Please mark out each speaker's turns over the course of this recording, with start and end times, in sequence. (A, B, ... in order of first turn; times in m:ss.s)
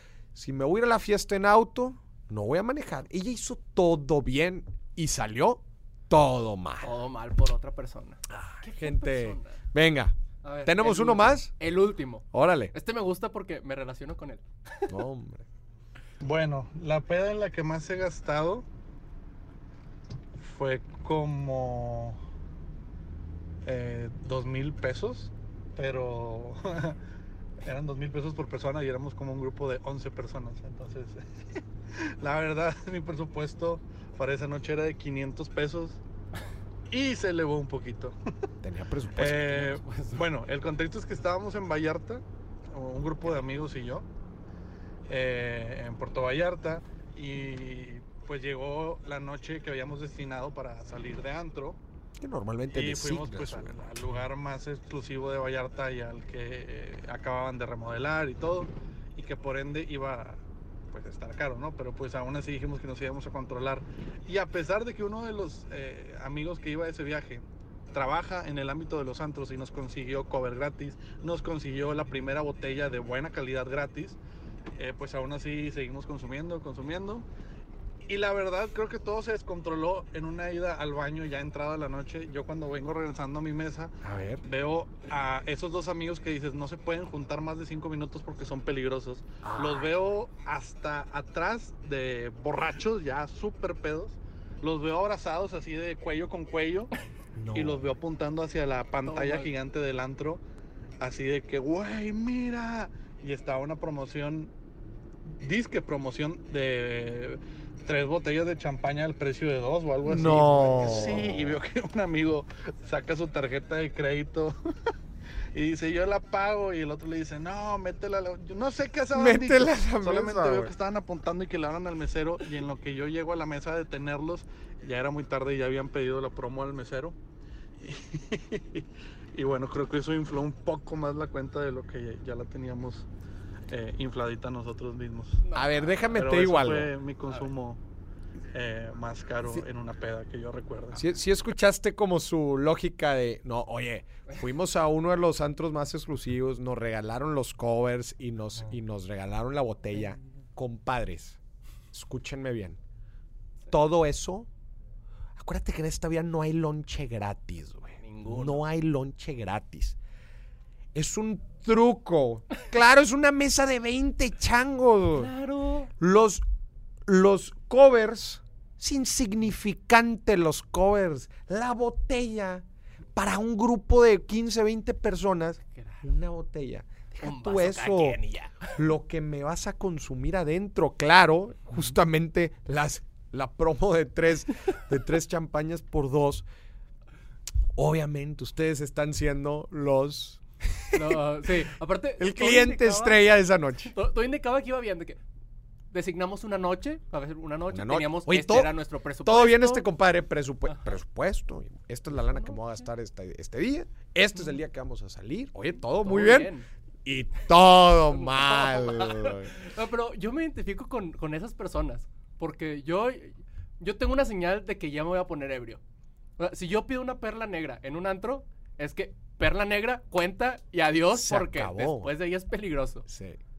0:00.3-0:06.9 A
0:06.8-0:09.6 B
0:08.3-0:11.5 A
0:10.4-0:14.9 B
0:12.3-0:12.7 A
0:14.9-0:15.4 A
0:16.2-0:18.6 C
0:20.4-0:22.2 C
0:23.6-0:27.0 C
0:27.6-0:31.2 C
0:32.2-0:36.0 C
0:36.9-0:38.2 C
0:38.6-0:39.8 A
0:39.2-0:44.1 C
0:39.6-0:40.3 B
0:45.1-0:51.8 C
0:52.2-0:54.0 A
0:52.7-1:14.2 C
1:14.8-1:17.2 C
1:18.1-1:36.9 C
1:24.0-1:24.4 A
1:29.4-1:29.9 A
1:37.3-1:37.9 A
1:37.5-1:40.4 C
1:39.0-1:39.5 B
1:41.0-1:44.5 C
1:45.4-1:54.6 C
1:50.0-1:51.6 A
1:55.5-2:07.2 C
1:59.1-2:00.7 A
2:07.8-2:13.1 C
2:13.7-2:15.4 C
2:15.4-2:16.1 B
2:15.5-2:16.9 A
2:16.1-2:17.8 C
2:17.2-2:17.5 B
2:18.5-2:21.0 C
2:20.9-2:31.4 A
2:31.9-2:32.8 A
2:33.7-2:34.5 A
2:35.4-2:40.0 A
2:38.0-2:38.6 B
2:40.9-2:45.3 A
2:45.1-2:45.9 B
2:46.0-2:46.4 A
2:47.1-2:58.2 A
2:55.7-2:56.0 B
2:57.2-2:58.8 B
2:58.7-3:06.4 A
3:07.8-3:11.2 A
3:10.9-3:13.2 B
3:12.2-3:13.9 A
3:13.8-3:15.2 B
3:15.9-3:19.9 B
3:17.7-3:26.5 A
3:22.1-3:22.7 B
3:26.0-3:26.7 B
3:27.0-3:29.5 A
3:28.1-3:35.8 B
3:36.4-3:43.0 B
3:41.1-3:42.1 A
3:43.0-3:43.4 A